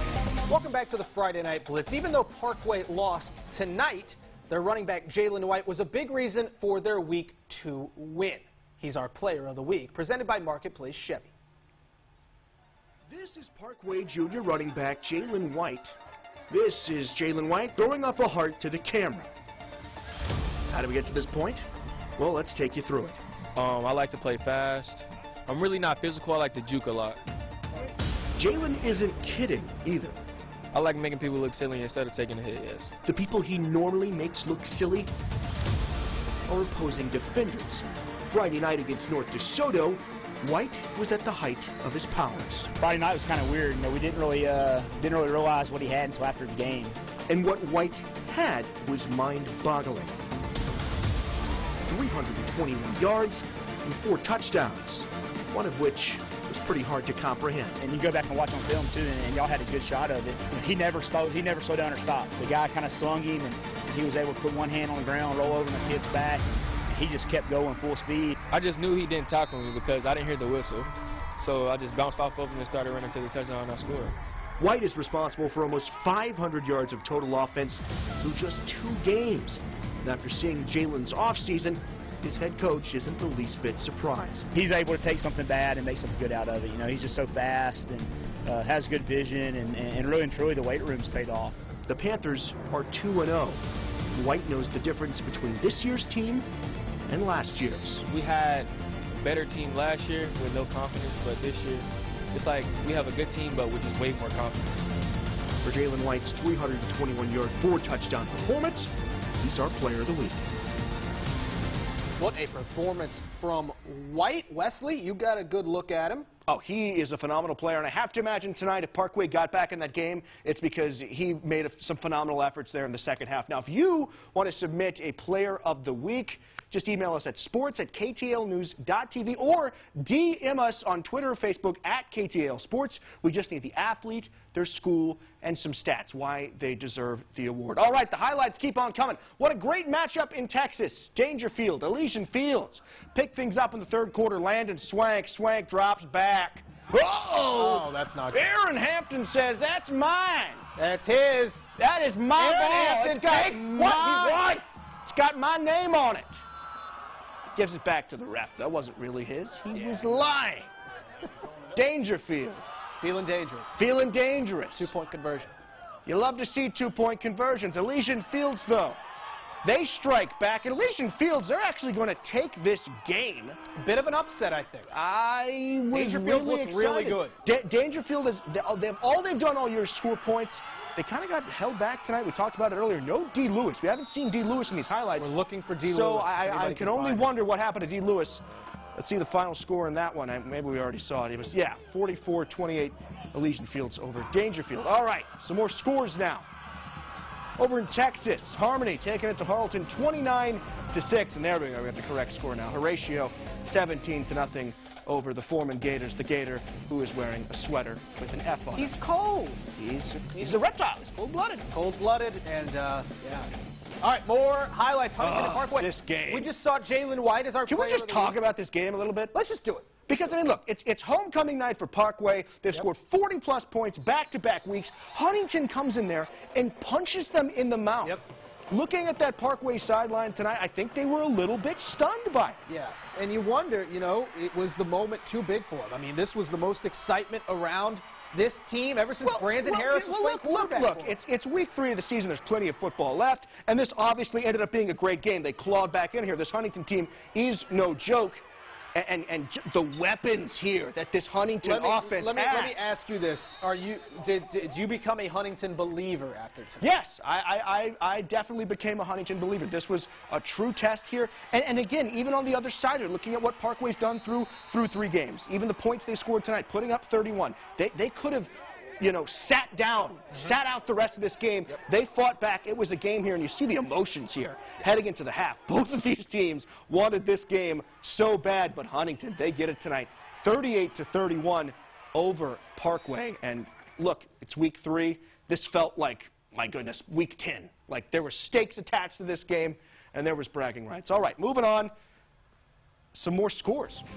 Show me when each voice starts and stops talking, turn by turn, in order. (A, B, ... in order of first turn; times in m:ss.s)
0:00.4-0:11.3 A
0:13.1-0:16.0 B
0:16.5-0:19.3 B
0:20.7-0:21.6 B
0:22.2-0:23.2 B
0:23.6-0:27.2 C
0:28.4-0:30.2 B
0:30.7-0:32.9 C
0:33.0-0:35.1 B
0:36.5-0:42.7 B
0:42.8-0:47.0 D
0:47.3-0:50.2 B
0:51.8-0:57.8 B
0:57.8-1:08.4 D
1:08.5-1:14.1 C
1:14.6-1:24.4 B
1:24.5-1:31.5 D
1:31.9-1:33.6 B
1:34.1-1:36.4 B
1:37.1-1:38.0 B
1:38.1-1:44.8 C
1:45.6-1:50.4 B
1:52.2-1:56.3 A
1:56.5-2:30.6 B
2:27.5-2:28.5 A
2:30.8-2:31.7 A
2:31.8-2:36.4 B
2:32.3-2:34.7 A
2:37.5-2:40.7 B
2:39.7-2:40.3 A
2:41.7-2:42.6 B
2:43.0-2:43.8 A
2:43.8-2:44.9 B
2:44.7-2:45.5 A
2:46.0-2:49.0 B
2:49.6-2:53.6 B
2:53.7-2:54.9 A
2:54.9-3:05.3 B
2:55.9-2:57.3 A
3:05.2-3:07.3 A
3:05.8-3:08.4 B
3:08.9-3:16.5 B
3:17.6-3:29.0 B
3:28.7-3:29.6 A
3:29.8-3:31.7 B
3:30.3-3:30.6 A
3:31.7-3:38.4 A
3:35.2-3:36.5 B
3:37.7-3:39.3 B
3:39.3-3:39.9 A
3:40.1-3:52.6 B
3:52.7-4:01.2 A
3:59.2-4:12.9 B
4:11.6-4:16.8 A
4:16.8-4:51.9 B
4:53.1-4:54.0 B